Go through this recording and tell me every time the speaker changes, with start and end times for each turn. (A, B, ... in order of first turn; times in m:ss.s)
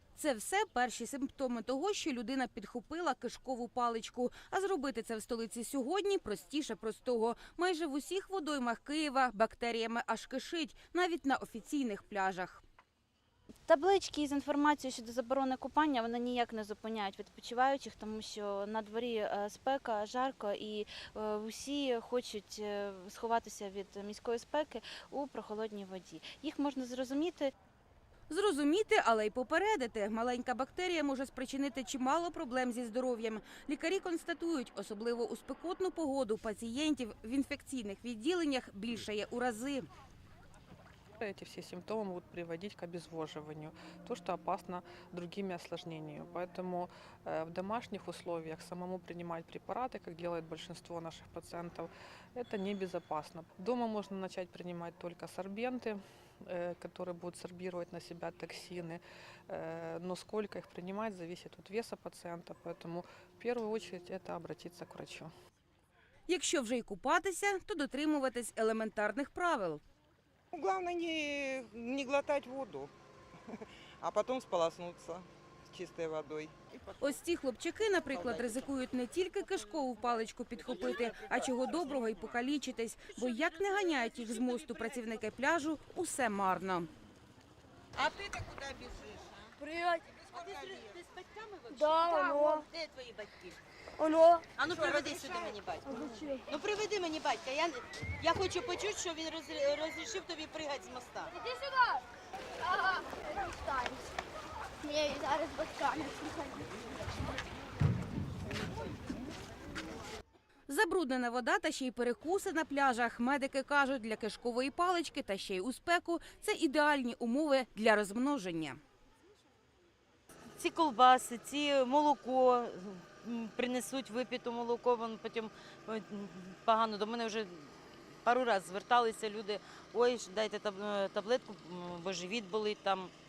0:00.2-0:12.6 A
0:13.7-0:27.5 B
0:28.3-0:39.9 A
0:41.2-1:05.3 C
1:06.3-1:09.8 A
1:10.5-1:12.9 D
1:14.0-1:17.2 D
1:17.0-1:26.9 A
1:28.0-1:29.2 D
1:29.6-1:30.1 E
1:30.3-1:33.6 F
1:30.5-1:30.8 D
1:31.7-1:32.7 E
1:34.0-1:34.4 E
1:34.6-1:41.3 F
1:34.7-1:35.6 D
1:35.8-1:36.5 E
1:42.7-1:44.0 E
1:44.8-1:46.7 E
1:50.7-1:58.8 A
2:00.6-2:13.1 F